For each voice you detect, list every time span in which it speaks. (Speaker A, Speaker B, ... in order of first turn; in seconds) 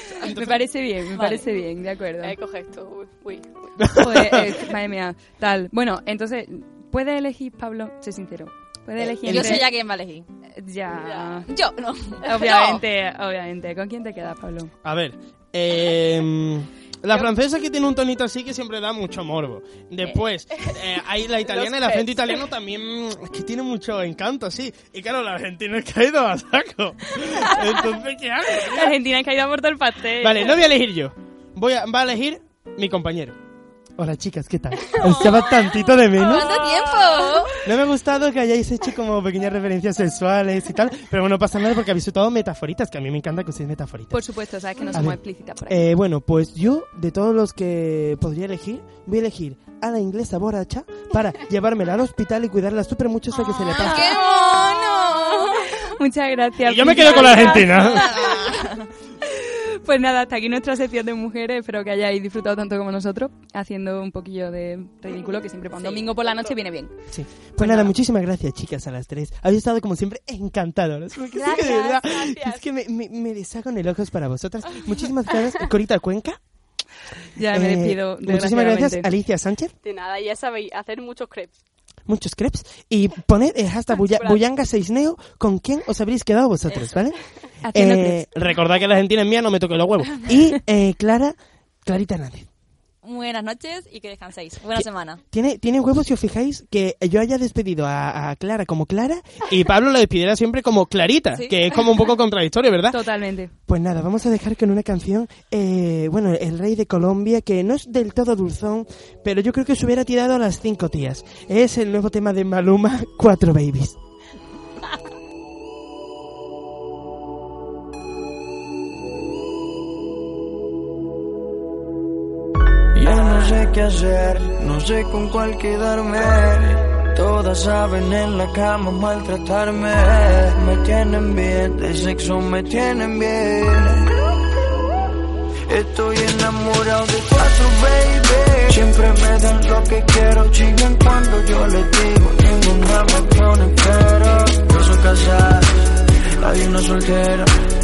Speaker A: 0.2-2.4, 3.9-9.7, 10.6-11.5, 12.2-14.7, 28.6-30.6, 44.1-45.9, 53.7-58.5, 59.3-66.9, 67.6-67.9, 77.3-79.1, 87.6-88.2, 102.9-103.5
Speaker B: 0.3-0.5, 3.8-4.4, 9.3-9.6, 14.8-28.9, 30.2-33.4, 34.0-36.6, 37.6-44.2, 44.9-54.1, 56.6-58.0, 67.1-76.4, 77.5-79.7, 82.1-87.2, 87.7-92.5, 94.7-103.0, 103.7-114.0
Speaker C: 1.1-1.4, 9.2-10.3, 11.5-12.8, 36.2-37.5, 53.4-55.5, 57.1-58.8, 65.8-66.1, 93.0-95.2, 101.3-101.8
Speaker D: 2.2-3.7, 11.0-11.3, 21.4-22.4, 71.3-72.6, 79.8-81.5, 83.9-84.5
Speaker E: 122.9-134.1, 135.7-145.7, 146.4-147.6